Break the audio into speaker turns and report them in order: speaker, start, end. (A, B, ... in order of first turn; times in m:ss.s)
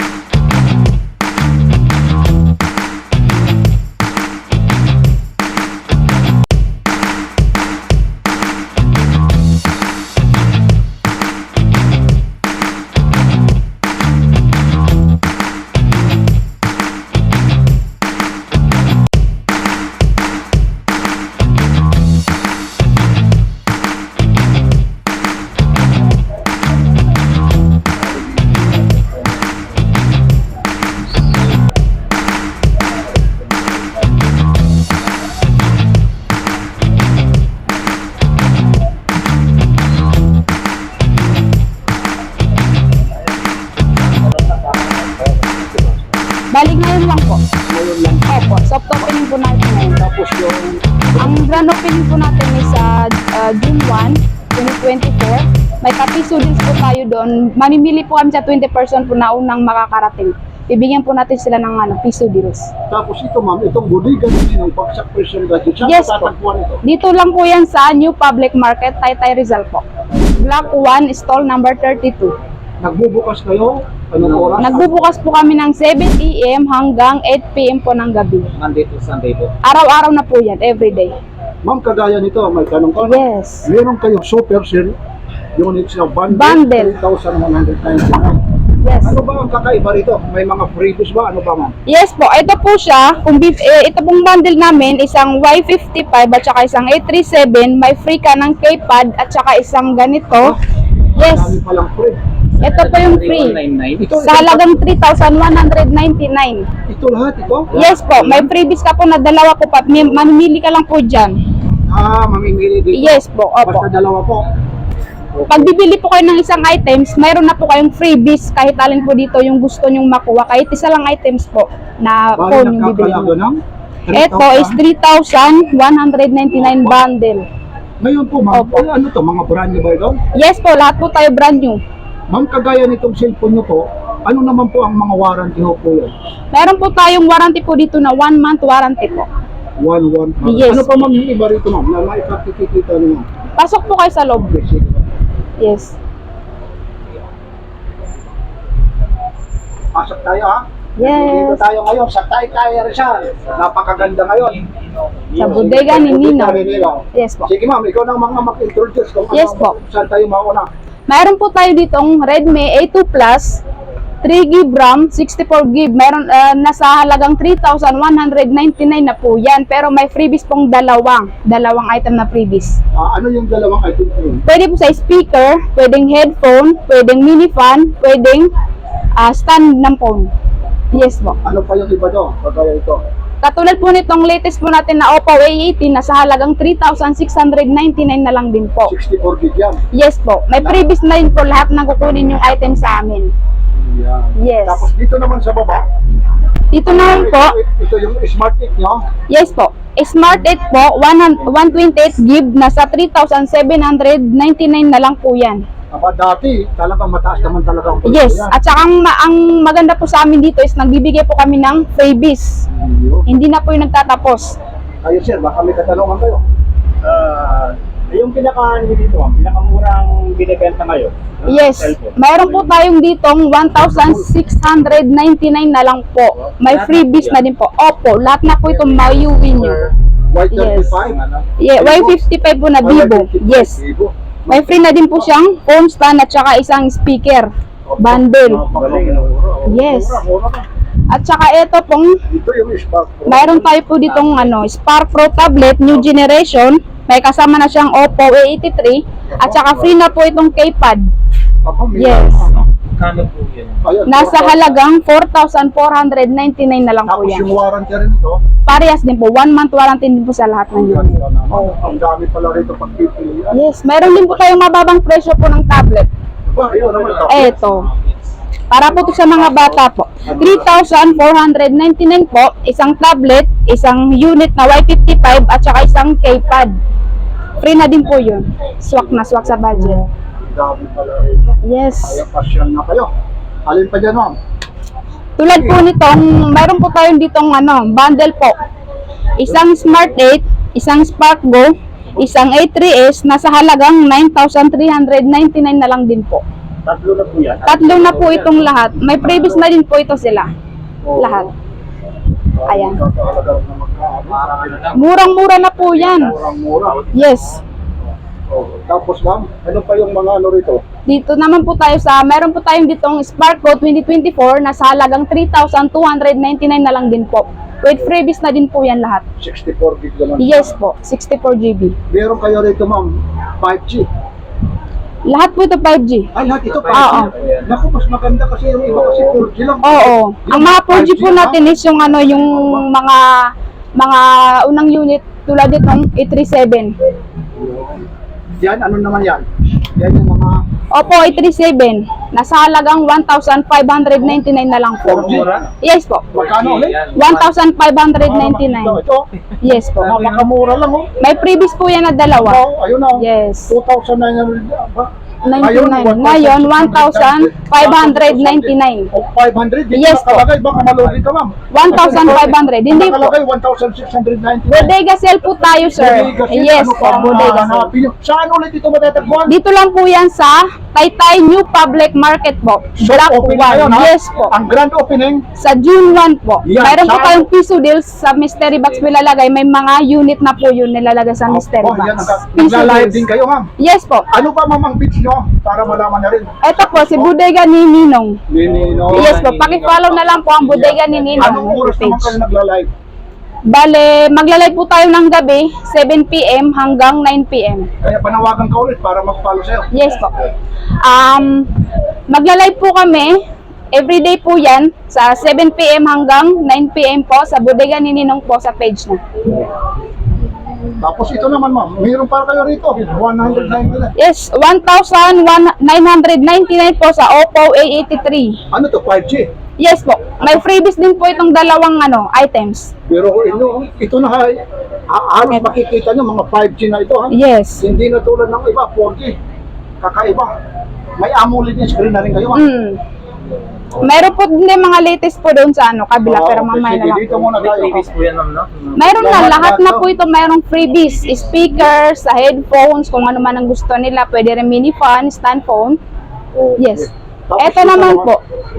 0:45.5-0:45.8 A
0:46.5-0:47.4 B
0:47.7-0:48.4 A
0:48.3-0:50.0 B
0:49.9-0:51.6 A
0:51.2-1:02.7 B
1:02.9-1:06.8 A
1:05.8-1:06.3 B
1:06.8-1:09.8 B
1:10.4-1:12.3 B
1:12.8-1:15.0 A
1:14.2-1:14.7 C
1:14.6-1:18.5 B
1:18.6-1:19.5 C
1:19.6-1:21.1 B
1:21.6-1:25.0 A
1:23.0-1:23.7 B
1:25.6-1:28.4 A
1:26.3-1:26.9 B
1:28.8-1:29.2 B
1:29.0-1:31.7 A
1:31.9-1:40.6 B
1:41.2-1:41.6 B
1:41.2-1:42.2 A
1:42.6-1:43.6 B
1:42.6-1:44.1 C
1:44.0-1:44.7 A
1:44.2-1:46.7 B
1:46.9-1:48.5 A
1:47.7-1:51.4 B
1:51.9-1:54.5 A
1:52.9-1:53.9 B
1:55.3-1:55.7 A
1:55.5-2:03.3 B
2:02.4-2:04.8 A
2:04.1-2:07.5 B
2:06.5-2:07.0 A
2:08.0-2:10.2 A
2:08.5-2:08.9 B
2:10.3-2:11.8 B
2:12.3-2:16.1 A
2:16.5-2:19.3 B
2:19.8-2:23.3 A
2:20.4-2:20.9 B
2:23.6-2:24.5 B
2:24.4-2:25.1 A
2:25.6-2:26.0 B
2:30.0-2:34.6 A
2:31.0-2:31.6 B
2:35.3-2:35.7 C
2:35.4-2:37.5 B
2:35.4-2:40.7 A
2:39.3-2:39.8 B
2:41.1-2:43.6 B
2:44.2-2:52.8 B
2:53.0-2:54.4 A
2:54.5-2:58.5 B
2:59.2-3:00.3 B
3:00.9-3:01.4 B
3:01.4-3:03.0 A
3:03.4-3:08.9 B
3:08.9-3:09.8 A
3:09.9-3:13.3 B
3:13.8-3:15.8 A
3:14.4-3:14.9 B
3:16.7-3:17.5 B
3:16.8-3:19.0 A
3:19.3-3:25.6 B
3:25.9-3:28.6 A
3:28.1-3:32.6 B
3:32.7-3:33.3 A
3:33.3-3:34.6 B
3:35.0-3:36.4 A
3:37.0-3:42.4 D
3:41.5-3:49.9 B
3:43.9-3:44.3 A
3:46.6-3:47.4 C
3:48.7-3:49.9 C
3:50.3-3:51.2 A
3:50.5-3:51.0 B
3:50.7-3:51.4 C
3:51.6-3:53.8 B
3:51.7-3:52.2 A
3:52.8-3:55.3 A
3:54.5-3:58.7 B
3:57.9-4:00.7 A
3:58.7-3:59.2 C
3:59.7-4:00.2 B
4:01.1-4:02.2 B
4:02.3-4:03.7 A
4:03.3-4:11.1 B
4:04.0-4:04.6 C
4:09.3-4:10.0 A
4:11.6-4:12.6 A
4:12.0-4:12.5 B
4:13.0-4:13.8 C
4:13.8-4:14.7 A
4:14.1-4:17.5 B
4:17.1-4:18.4 A
4:18.7-4:21.6 B
4:20.7-4:23.6 A
4:23.5-4:26.1 B
4:26.5-4:27.6 A
4:26.7-4:28.2 C
4:27.3-4:27.9 B
4:28.7-4:36.8 B
4:29.3-4:29.8 C
4:30.2-4:31.0 A
4:37.6-4:40.0 B
4:40.4-4:43.1 A
4:41.6-4:42.2 B
4:43.7-4:44.4 A
4:45.4-4:48.6 B
4:45.5-4:45.8 A
4:49.4-4:56.4 B
4:56.8-4:57.9 D
4:57.6-4:58.7 C
4:57.7-5:00.5 B
5:01.0-5:01.5 A
5:01.2-5:01.5 B
5:02.6-5:05.1 A
5:02.7-5:03.0 B
5:04.3-5:05.1 C
5:05.0-5:06.4 B
5:05.9-5:07.0 A
5:06.8-5:07.6 C
5:07.1-5:07.6 B
5:08.5-5:10.8 A
5:11.1-5:19.2 B
5:19.4-5:20.7 A
5:20.4-5:22.0 B
5:22.1-5:24.1 A
5:25.3-5:26.3 B
5:26.3-5:32.9 A
5:26.7-5:27.8 C
5:26.9-5:27.3 B
5:28.9-5:29.4 C
5:29.8-5:36.9 B
5:37.6-5:38.0 A
5:38.6-5:40.6 A
5:40.9-5:46.4 B
5:45.0-5:45.7 A
5:45.1-5:45.6 C
5:46.3-5:47.0 A
5:46.3-5:47.5 C
5:47.2-5:49.0 B
5:48.2-5:49.3 A
5:49.5-5:50.5 C
5:49.6-5:50.1 B
5:50.0-5:51.1 A
5:51.2-5:52.6 B
5:52.3-6:04.9 A
5:53.2-5:53.7 B
5:55.4-5:59.1 B
5:59.9-6:00.4 B
6:01.7-6:03.4 B
6:04.7-6:07.9 B
6:05.9-6:09.6 A
6:09.5-6:14.6 B
6:13.0-6:15.4 A
6:15.6-6:23.2 B
6:16.6-6:17.5 A
6:18.5-6:19.2 C
6:21.5-6:23.7 A
6:23.8-6:24.3 B
6:24.3-6:27.3 A
6:26.6-6:28.4 B
6:28.5-6:29.4 A
6:28.6-6:31.6 C
6:29.1-6:32.4 B
6:31.4-6:32.9 A
6:33.7-6:37.9 B
6:38.0-6:39.9 A
6:39.9-6:40.3 B
6:41.0-6:41.7 B
6:42.3-6:43.4 B
6:43.9-6:49.2 B
6:51.0-6:54.1 A
6:54.2-6:58.6 B
6:58.7-6:59.5 A
6:59.8-7:02.9 B
7:03.1-7:09.4 A
7:07.3-7:07.8 B
7:10.0-7:10.5 A
7:11.2-7:12.7 A
7:12.5-7:13.0 B
7:14.0-7:17.5 B
7:16.2-7:18.1 A
7:17.5-7:19.3 C
7:19.0-7:26.0 B
7:19.2-7:20.1 A
7:26.5-7:28.3 A
7:26.8-7:27.1 B
7:27.6-7:28.4 B